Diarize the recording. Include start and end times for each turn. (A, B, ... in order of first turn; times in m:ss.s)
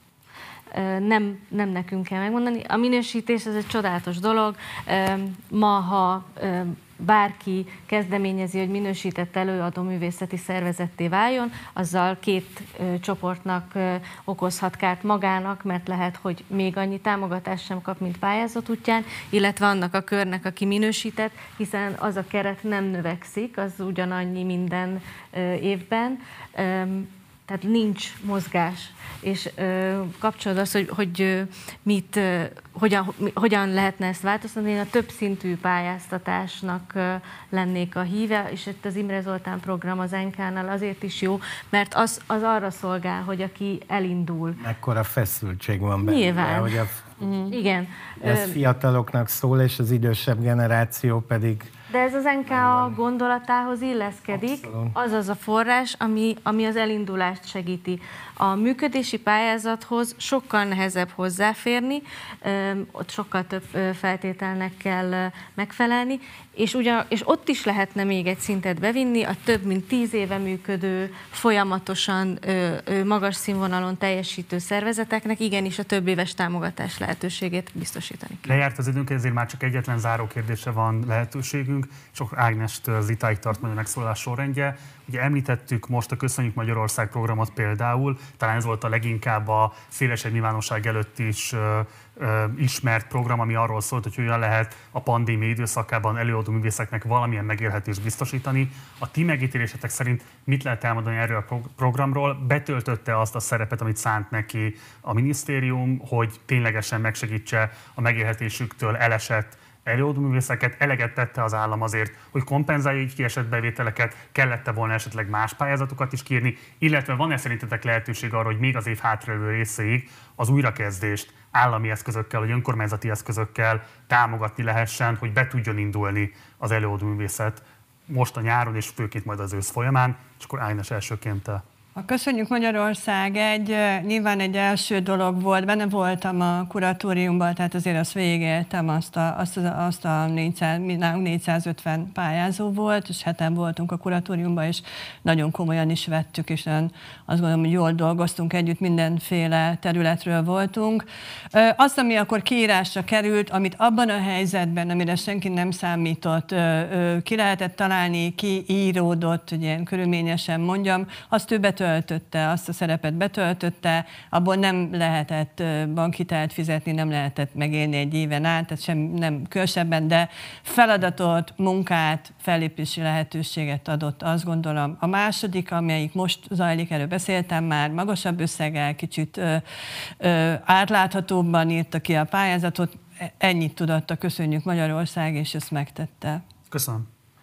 0:00.7-0:44.6 A
0:44.6-0:47.0 B
0:46.0-0:46.8 A
0:47.2-0:47.5 C
0:47.5-0:48.6 A
0:48.2-0:51.7 B
0:51.9-1:18.6 A
0:52.5-0:53.0 B
0:54.3-0:54.9 B
1:18.4-2:11.6 D
2:12.0-2:59.6 C
3:00.2-3:06.4 C
3:06.7-3:07.0 D